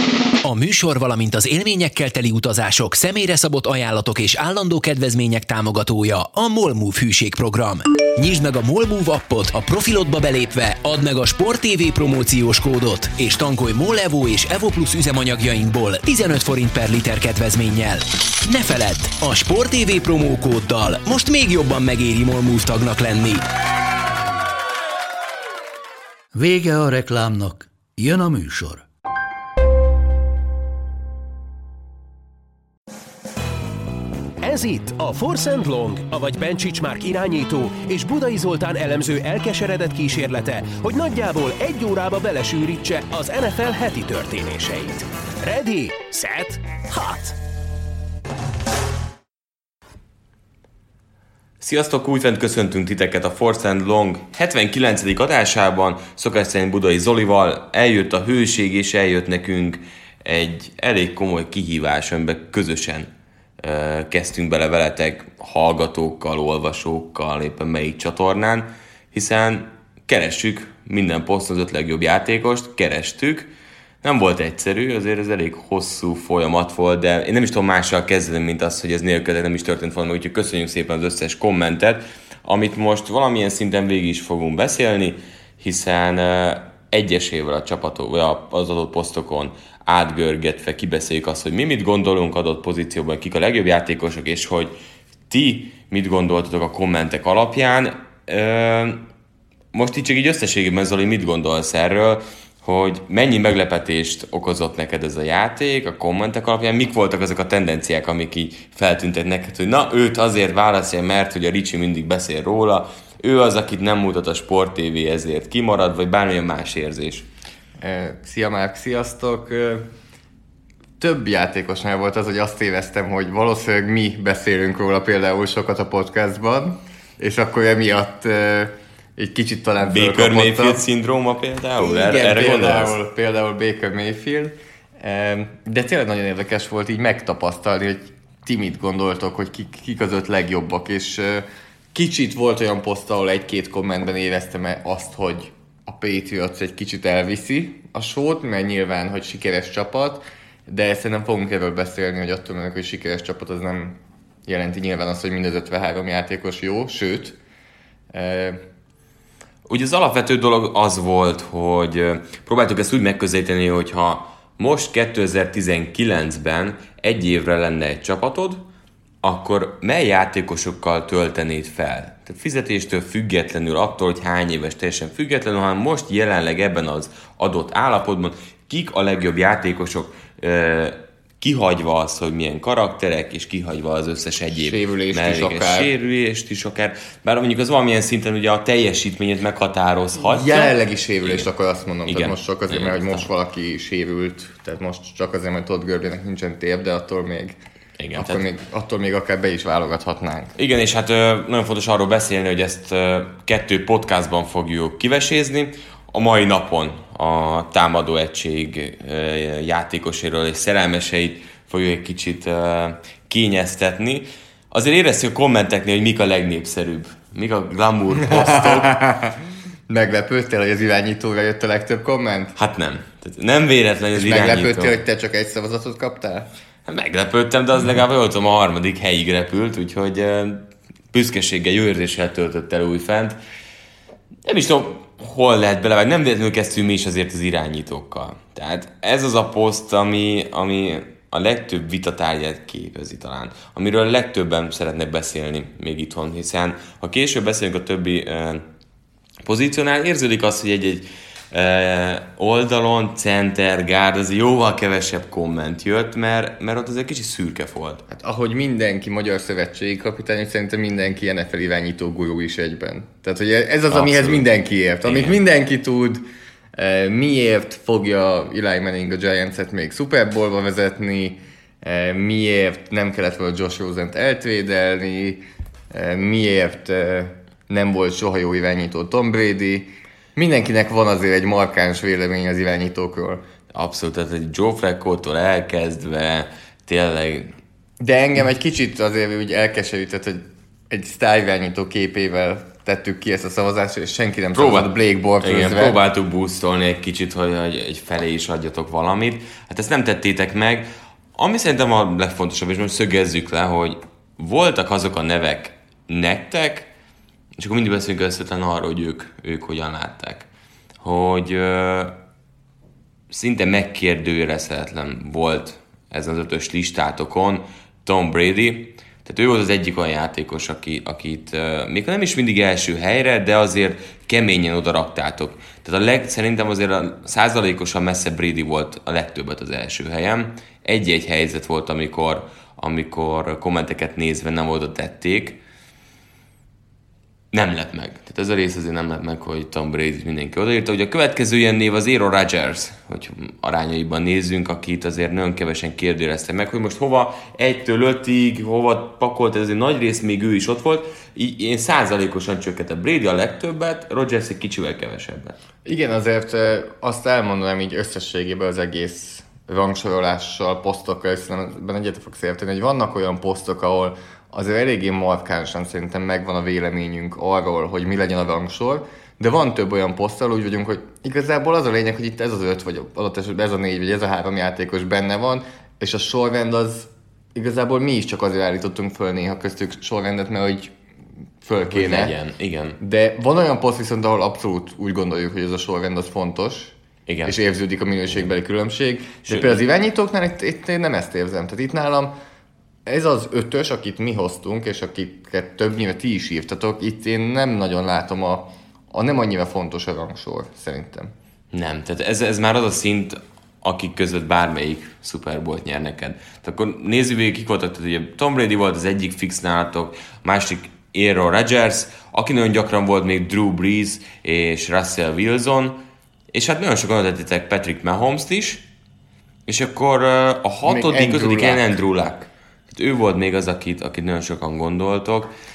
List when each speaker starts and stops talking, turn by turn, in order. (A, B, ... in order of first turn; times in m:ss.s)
0:00.4-0:23.4 A
0:26.3-0:28.8 B
0:34.4-0:47.4 C
0:51.6-1:13.5 D
1:14.0-1:34.8 D
1:35.3-1:39.0 D
1:39.7-1:57.3 D
1:57.8-1:59.8 E
2:01.0-2:10.8 E
2:09.8-2:13.0 D
2:11.8-2:37.4 E
2:38.1-2:38.6 E
2:39.6-2:48.7 D
2:49.2-3:11.5 D
3:04.5-3:05.9 E
3:10.2-3:17.6 E
3:12.1-3:13.3 D
3:18.0-3:18.4 D
3:18.1-3:20.5 E
3:20.6-3:39.1 D
3:38.3-3:39.4 E
3:39.9-3:42.5 E
3:42.6-3:45.0 D
3:44.1-3:46.5 E
3:46.8-3:53.4 D
3:54.4-4:08.7 D
4:09.4-4:18.0 D
4:18.1-4:26.2 E
4:23.9-4:24.5 D
4:25.0-4:25.4 D
4:26.8-4:43.4 E
4:43.7-4:47.6 D
4:48.0-4:56.0 E
4:54.5-5:06.9 D
5:07.6-5:10.5 D
5:11.0-5:12.2 D
5:13.3-5:35.6 D
5:37.5-5:55.6 D
5:55.8-6:20.9 E
6:21.6-6:22.3 E
6:21.9-6:23.0 D
6:23.0-6:26.9 E
6:27.3-6:27.6 D
6:27.4-6:32.3 E
6:29.4-6:29.8 D
6:33.0-6:41.3 E
6:41.7-6:56.0 D
6:56.5-6:58.8 D
6:59.7-7:05.5 D
7:00.8-7:01.9 E